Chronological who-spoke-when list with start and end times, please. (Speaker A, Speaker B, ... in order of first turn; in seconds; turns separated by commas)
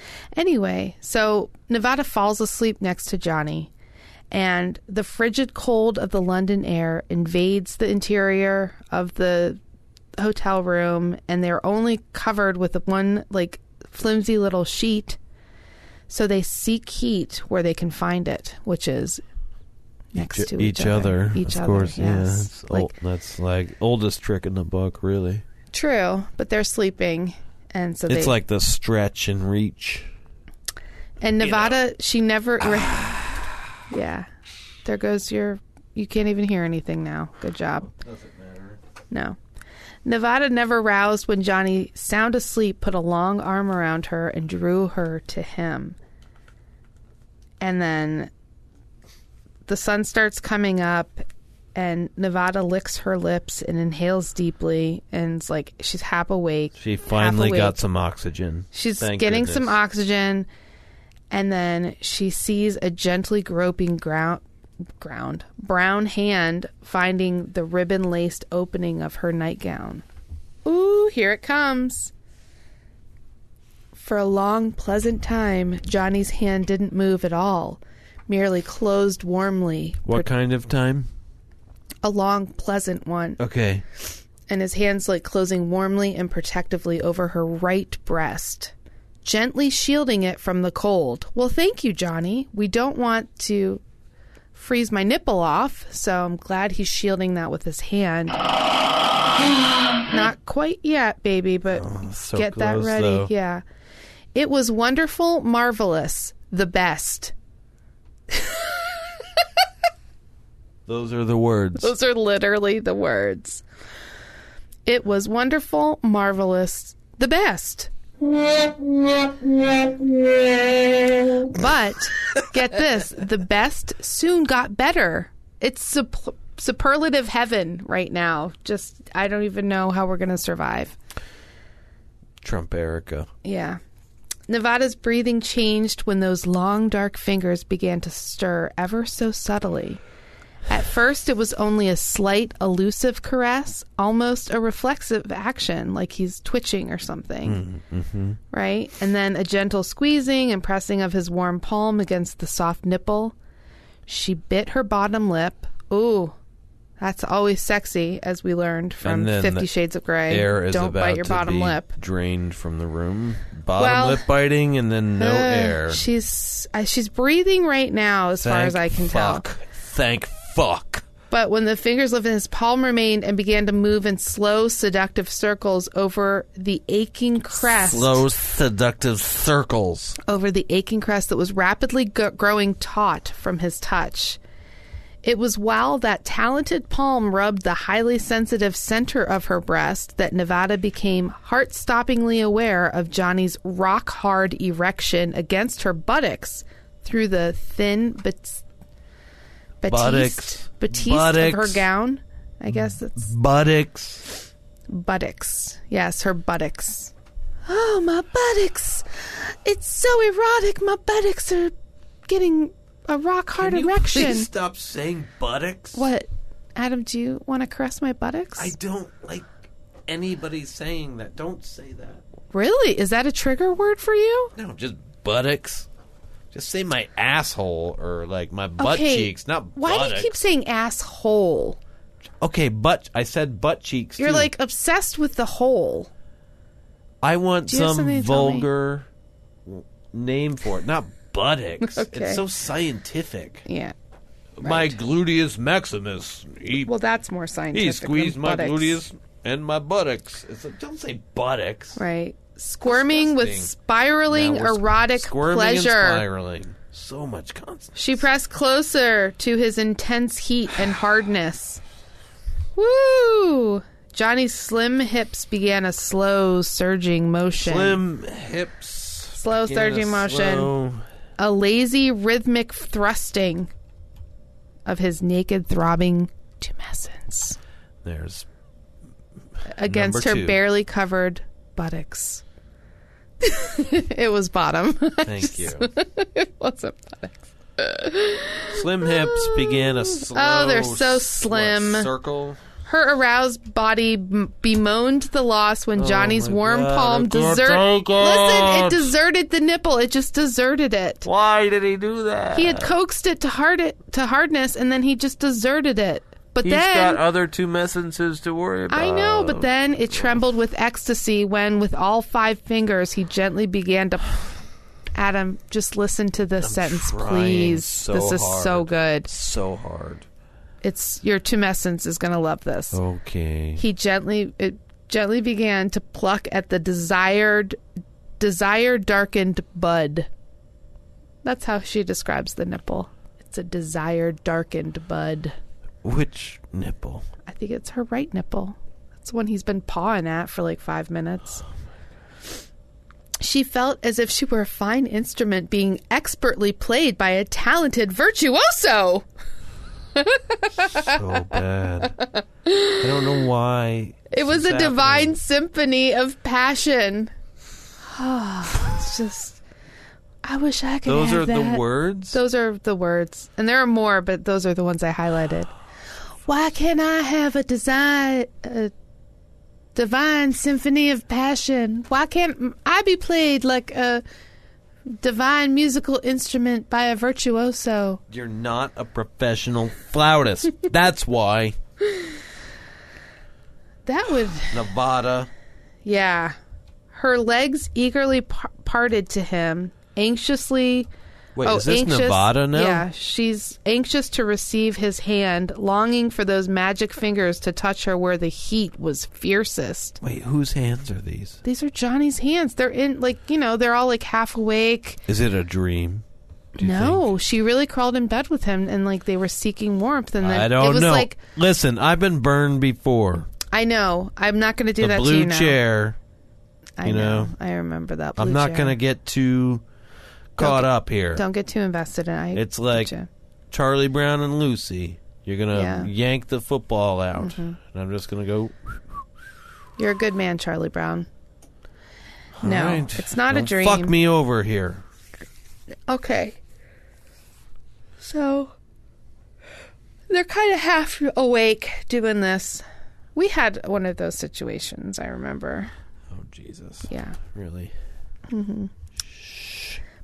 Speaker A: 0.3-3.7, Speaker A: 4.3-9.6, Speaker A: 10.2-15.2, Speaker A: 16.1-19.2, Speaker A: 20.1-22.9, Speaker B: 20.1-25.4, Speaker A: 25.7-28.4, Speaker B: 28.1-30.1, Speaker A: 31.2-33.2, Speaker B: 31.4-31.8, Speaker B: 32.6-33.4, Speaker A: 33.9-34.3, Speaker A: 34.8-37.9, Speaker B: 37.9-38.8, Speaker A: 39.1-39.4, Speaker A: 40.0-46.0, Speaker A: 47.6-48.3, Speaker A: 49.7-51.2, Speaker A: 51.8-57.8, Speaker B: 56.8-59.8, Speaker A: 58.7-60.5, Speaker A: 61.3-64.4, Speaker A: 65.0-70.0, Speaker A: 70.7-72.1, Speaker A: 74.0-80.3, Speaker B: 80.1-81.1, Speaker A: 82.0-83.4, Speaker B: 83.4-83.8, Speaker A: 84.5-93.8, Speaker A: 94.5-98.4, Speaker A: 100.1-103.6, Speaker B: 101.7-103.3, Speaker A: 104.3-107.3, Speaker A: 108.3-108.7, Speaker B: 110.9-111.9, Speaker A: 111.8-113.6, Speaker A: 114.9-117.9, Speaker A: 121.5-131.0, Speaker B: 132.4-133.3, Speaker A: 133.4-133.8, Speaker A: 134.5-140.0, Speaker A: 140.7-147.6, Speaker B: 147.4-148.4, Speaker A: 148.5-153.3, Speaker A: 154.1-156.4, Speaker A: 157.0-161.9, Speaker B: 159.0-159.7, Speaker B: 160.3-166.1, Speaker A: 163.8-164.2, Speaker A: 165.2-169.5, Speaker B: 168.4-171.1, Speaker A: 171.3-178.2, Speaker B: 177.6-180.2, Speaker A: 180.2-184.4, Speaker A: 185.2-198.6, Speaker A: 199.8-203.3, Speaker B: 199.9-201.8, Speaker B: 203.2-204.4, Speaker A: 204.9-207.1, Speaker A: 207.7-211.7, Speaker A: 212.3-214.5, Speaker B: 213.6-216.1, Speaker A: 215.9-218.7, Speaker B: 218.6-219.5, Speaker B: 220.1-222.2, Speaker A: 222.5-224.5, Speaker B: 224.6-225.9, Speaker B: 226.5-230.4, Speaker A: 228.8-231.8, Speaker B: 232.4-234.5, Speaker A: 234.2-236.1, Speaker B: 237.2-239.1, Speaker A: 237.7-238.7, Speaker B: 239.7-243.7, Speaker A: 241.8-242.4, Speaker A: 243.7-243.9, Speaker B: 244.6-246.9, Speaker A: 244.6-245.0, Speaker A: 246.8-249.0, Speaker B: 247.7-252.0, Speaker A: 252.0-256.2, Speaker B: 252.8-253.7, Speaker B: 254.3-258.3, Speaker A: 258.0-261.8, Speaker A: 262.8-268.0, Speaker B: 267.6-271.1, Speaker A: 269.3-270.7, Speaker A: 271.4-273.7, Speaker A: 274.9-277.6, Speaker B: 278.0-278.5, Speaker A: 279.7-282.4, Speaker B: 279.8-280.6, Speaker A: 283.4-292.1, Speaker B: 285.2-285.9, Speaker B: 288.7-292.6, Speaker A: 292.9-301.3, Speaker B: 296.0-299.1, Speaker B: 301.2-302.9, Speaker A: 302.5-307.2, Speaker B: 306.6-310.4, Speaker A: 308.9-314.4, Speaker A: 315.1-319.3, Speaker B: 316.6-320.3, Speaker A: 320.8-323.0, Speaker B: 322.9-323.8, Speaker A: 323.8-327.8, Speaker A: 328.4-330.3, Speaker A: 331.4-335.6, Speaker B: 336.0-337.2, Speaker A: 337.5-341.6, Speaker A: 343.4-349.3, Speaker A: 350.1-351.3, Speaker B: 350.7-352.2, Speaker A: 352.2-353.3, Speaker B: 353.0-355.4, Speaker A: 354.3-357.3, Speaker A: 358.0-359.6, Speaker A: 360.4-365.7, Speaker B: 361.1-362.4, Speaker A: 366.4-368.9, Speaker A: 369.9-374.2, Speaker A: 375.2-378.2, Speaker B: 378.3-381.8, Speaker A: 384.1-384.9, Speaker B: 384.7-385.5, Speaker A: 386.1-386.6, Speaker A: 387.1-391.1, Speaker B: 391.6-393.1, Speaker A: 391.6-400.2, Speaker B: 400.2-401.6, Speaker A: 401.6-405.2, Speaker B: 405.3-406.2, Speaker B: 406.8-407.3, Speaker A: 406.8-411.4, Speaker B: 410.4-413.5, Speaker A: 413.7-415.8, Speaker B: 415.0-416.2, Speaker A: 417.0-419.0, Speaker B: 417.0-417.5, Speaker B: 418.4-419.9, Speaker B: 420.6-421.4, Speaker A: 420.6-423.3, Speaker B: 422.6-423.1, Speaker B: 423.7-429.0, Speaker A: 425.7-426.1, Speaker A: 427.4-427.8, Speaker A: 430.0-431.3, Speaker B: 432.6-435.0, Speaker A: 432.6-434.2, Speaker A: 436.1-436.6, Speaker A: 438.2-438.7, Speaker A: 440.3-442.8, Speaker A: 443.4-445.9, Speaker B: 446.3-447.9, Speaker A: 447.1-447.4, Speaker A: 448.5-448.9, Speaker B: 449.2-450.0